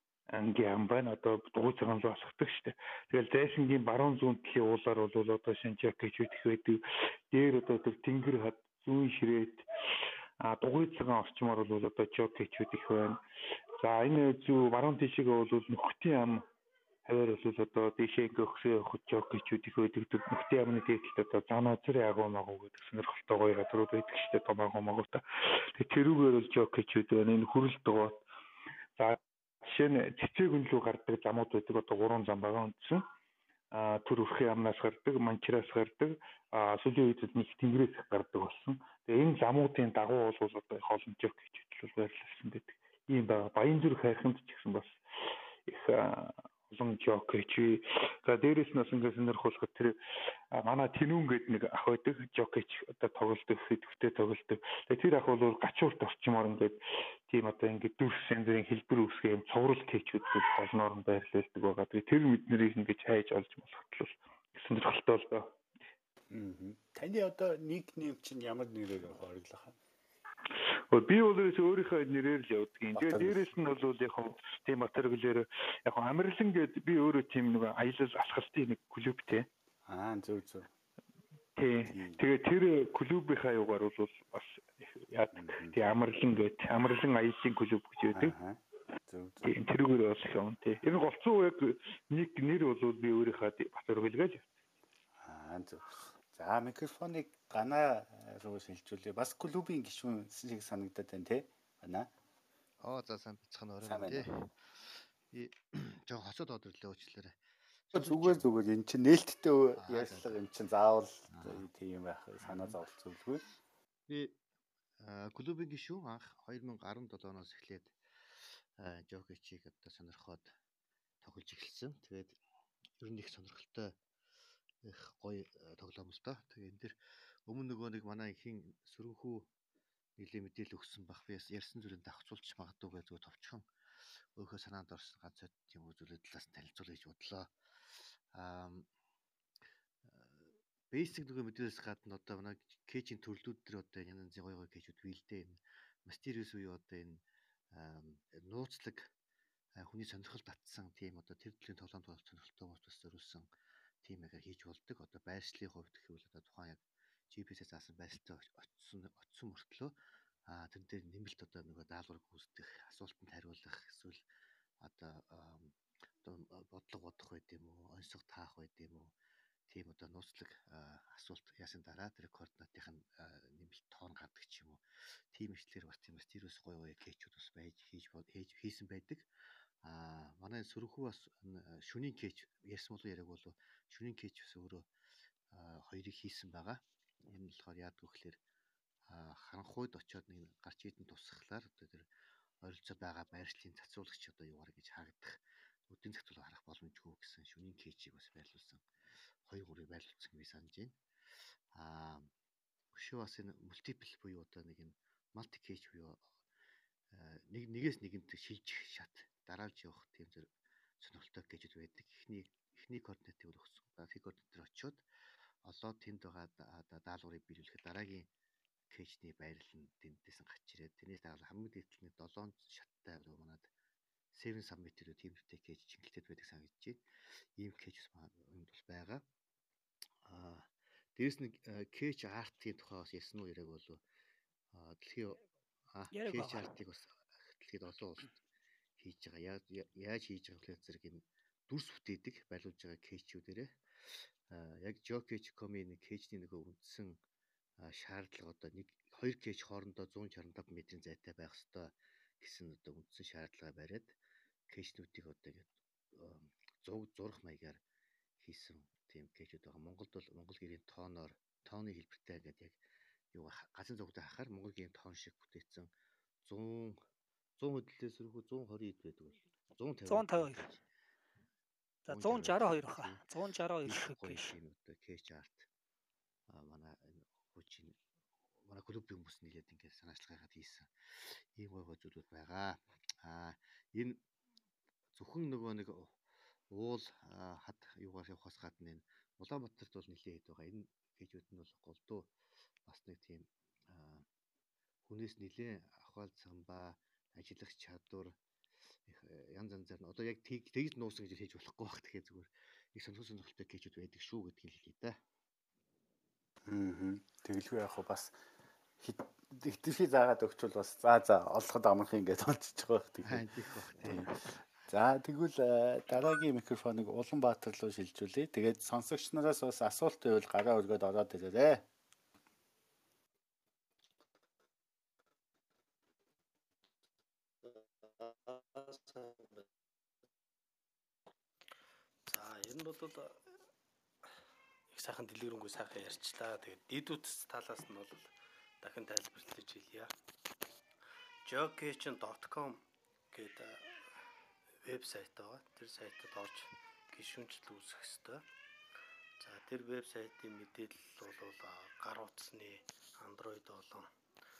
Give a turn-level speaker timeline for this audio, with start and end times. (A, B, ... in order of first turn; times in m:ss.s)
0:00.3-0:06.8 A
0:07.3-0:09.6 A
0:10.4-0:13.2 A
0:13.8-0:16.4 A
0:17.0-0:28.2 A
0:29.0-0:33.0 A
0:33.7-0:45.0 A
0:45.7-0:50.0 A
0:50.5-1:05.5 A
1:06.3-1:09.8 B
1:10.9-1:19.5 A
1:12.9-1:13.6 B
1:19.8-1:20.7 B
1:21.6-1:28.3 A
1:21.9-1:22.2 B
1:25.3-1:25.8 B
1:28.1-1:29.5 B
1:29.4-1:34.5 A
1:35.2-1:42.1 B
1:42.8-1:48.4 C
1:43.8-1:44.3 B
1:47.9-1:53.4 B
1:49.8-1:50.4 C
1:51.3-1:51.7 C
1:52.4-1:52.8 C
1:54.1-1:54.4 C
1:55.0-2:00.5 C
2:01.2-2:02.4 C
2:03.0-2:04.0 C
2:04.8-2:06.9 C
2:07.5-2:09.5 C
2:10.2-2:18.9 C
2:20.0-2:29.1 C
2:29.8-2:33.5 C
2:34.0-2:40.0 C
2:40.5-2:44.2 C
2:44.8-2:49.1 C
2:49.7-2:54.8 C
2:55.3-2:59.3 C
2:59.8-3:04.9 C
3:05.5-3:08.4 C
3:09.1-3:12.1 C
3:12.6-3:18.9 C
3:19.4-3:21.0 C
3:21.7-3:22.3 C
3:22.9-3:26.3 C
3:27.1-3:35.0 C
3:35.6-3:38.3 C
3:38.9-3:43.7 C
3:44.3-3:47.0 C
3:47.6-3:49.2 C
3:50.2-3:54.0 C
3:54.7-3:58.3 C
3:56.1-3:56.7 D
3:59.0-4:07.2 C
4:07.8-4:14.2 C
4:14.7-4:17.8 C
4:18.4-4:25.9 C
4:26.4-4:27.0 C
4:27.6-4:30.8 C
4:30.0-4:30.7 D
4:32.0-4:33.3 C
4:32.1-4:34.5 D
4:33.8-4:35.7 C
4:36.5-4:38.0 C
4:38.6-4:44.2 C
4:45.1-4:52.3 C
4:52.8-4:54.3 C
4:55.0-4:58.4 C
4:59.0-5:05.2 C
5:06.7-5:08.3 B
5:09.0-5:13.5 B
5:13.2-5:14.6 C
5:14.0-5:14.4 B
5:14.9-5:21.9 B
5:27.7-5:29.5 E
5:32.3-5:33.4 E
5:34.9-5:38.3 E
5:38.8-5:40.1 E
5:41.4-5:44.2 E
5:44.8-5:48.4 E
5:49.4-5:54.1 E